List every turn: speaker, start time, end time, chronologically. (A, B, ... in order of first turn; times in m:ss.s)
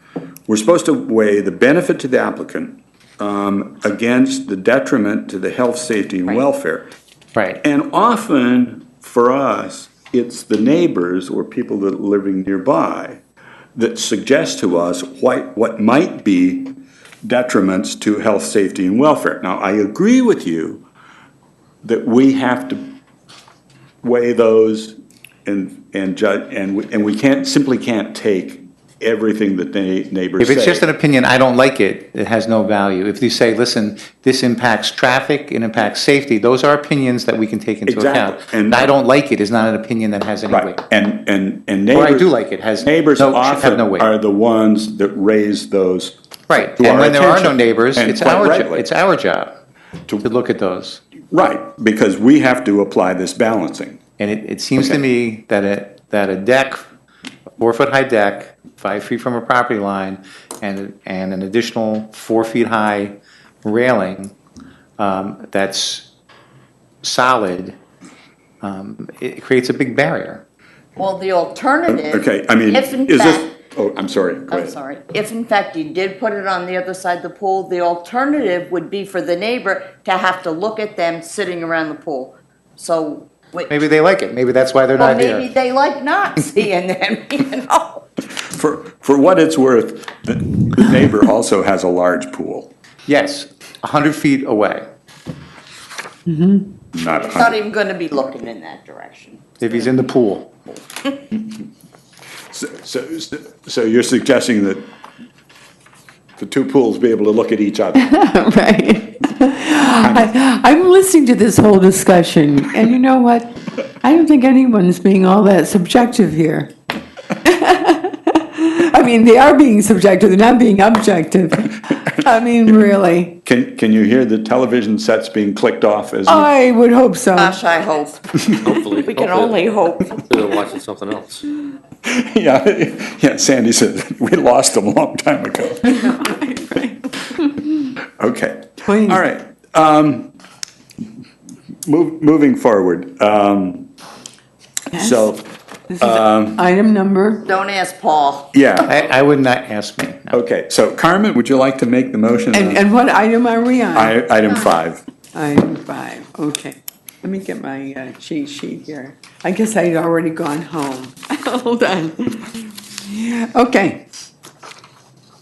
0:00.5-0:06.9 A
0:07.4-0:07.6 B
0:07.6-0:13.2 A
0:13.8-0:20.8 A
0:21.8-0:23.0 A
0:24.0-0:30.8 A
0:30.4-0:40.8 B
0:37.8-0:38.9 A
0:40.5-0:48.9 A
0:41.9-0:44.1 B
0:46.5-0:49.5 B
0:50.2-0:51.0 B
0:51.3-0:54.0 A
0:54.2-0:56.8 B
0:57.6-1:04.3 B
1:05.0-1:06.1 B
1:07.0-1:07.8 B
1:08.6-1:10.4 B
1:11.0-1:13.5 C
1:11.9-1:14.8 A
1:14.5-1:23.7 C
1:23.7-1:25.5 B
1:25.0-1:28.0 C
1:28.4-1:32.7 A
1:33.1-1:34.8 B
1:36.3-1:36.7 D
1:36.9-1:37.6 A
1:37.0-1:39.6 C
1:39.6-1:40.5 B
1:42.5-1:44.9 A
1:46.4-1:48.1 A
1:48.0-1:56.7 D
1:49.9-1:50.3 A
1:57.4-2:03.4 D
2:03.4-2:06.5 A
2:06.3-2:07.6 D
2:07.4-2:08.4 C
2:08.6-2:11.4 E
2:08.9-2:10.2 C
2:12.0-2:16.2 A
2:15.9-2:17.5 D
2:18.2-2:20.3 A
2:18.8-2:19.2 D
2:21.8-2:23.9 A
2:24.9-2:25.3 D
2:24.9-2:26.6 A
2:25.9-2:27.5 D
2:27.5-2:28.5 C
2:28.5-2:28.9 A
2:28.8-2:30.4 B
2:30.3-2:32.8 A
2:32.5-2:34.2 D
2:33.9-2:35.0 A
2:35.3-2:44.0 D